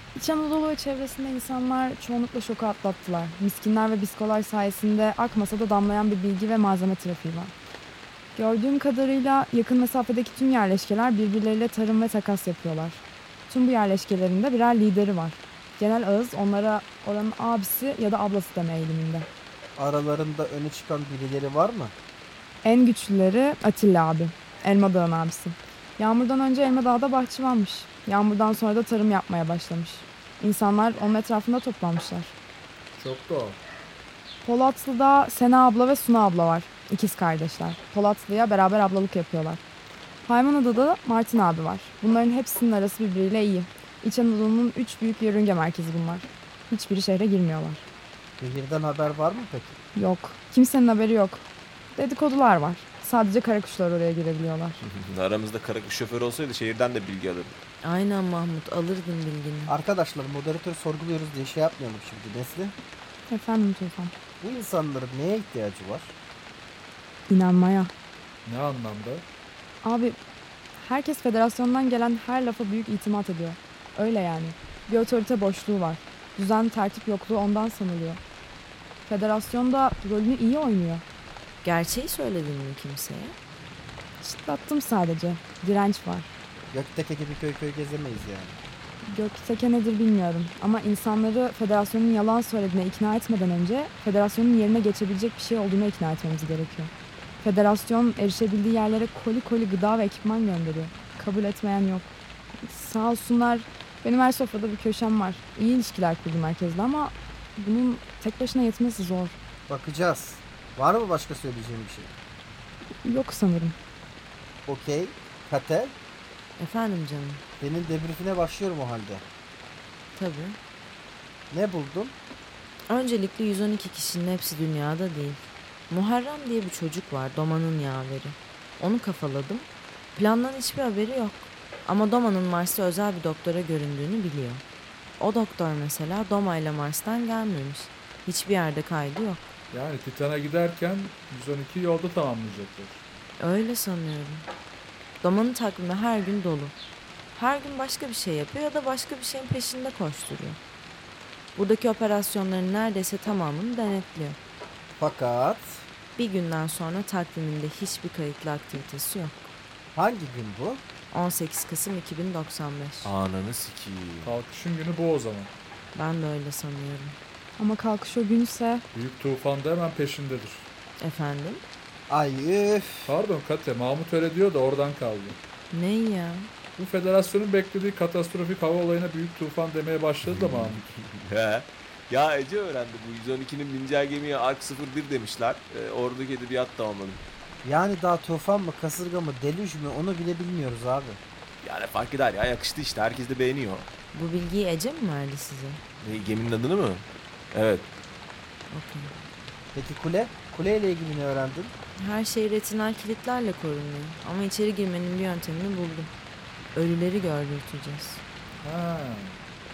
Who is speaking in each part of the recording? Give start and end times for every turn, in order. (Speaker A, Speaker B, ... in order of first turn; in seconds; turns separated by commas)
Speaker A: 0.1-7.5, Speaker A: 8.3-19.3, Speaker B: 19.8-21.9, Speaker A: 22.6-32.4, Speaker C: 33.0-33.6, Speaker A: 34.4-39.6, Speaker A: 40.2-47.9, Speaker B: 48.4-49.8, Speaker A: 50.0-51.4, Speaker A: 52.0-54.8, Speaker D: 54.8-57.6, Speaker E: 57.8-59.7, Speaker B: 59.7-62.8, Speaker A: 63.3-64.1, Speaker B: 64.4-66.2, Speaker A: 67.3-67.9, Speaker C: 68.5-69.2, Speaker A: 69.8-70.2, Speaker A: 70.8-78.2, Speaker A: 79.1-81.0, Speaker E: 81.6-83.3, Speaker A: 84.2-86.3, Speaker B: 86.7-88.6, Speaker A: 89.1-96.9, Speaker A: 97.4-109.4, Speaker B: 109.7-112.1, Speaker A: 113.0-113.8, Speaker B: 114.7-115.9, Speaker E: 116.6-117.4, Speaker B: 117.6-119.2, Speaker E: 120.2-120.6, Speaker B: 121.5-122.2, Speaker E: 122.9-134.6, Speaker E: 135.2-139.5, Speaker C: 139.7-143.0, Speaker E: 143.4-144.5, Speaker E: 145.2-146.8, Speaker E: 147.3-150.6, Speaker E: 151.6-154.4, Speaker B: 155.0-155.8, Speaker E: 156.2-159.6, Speaker B: 159.9-160.8, Speaker E: 161.1-163.1, Speaker D: 163.1-164.4, Speaker C: 164.2-165.5, Speaker E: 165.9-167.2, Speaker A: 167.6-168.8, Speaker C: 168.9-170.7, Speaker E: 171.0-171.6, Speaker B: 172.1-173.1, Speaker C: 173.1-175.4, Speaker E: 175.7-176.5, Speaker C: 176.8-180.9, Speaker D: 180.3-187.2, Speaker B: 187.6-191.2, Speaker D: 191.6-193.9, Speaker E: 194.1-195.8, Speaker D: 196.0-197.9, Speaker E: 198.7-199.1, Speaker B: 199.8-201.7, Speaker E: 202.0-206.1, Speaker E: 206.8-208.2, Speaker C: 208.6-209.4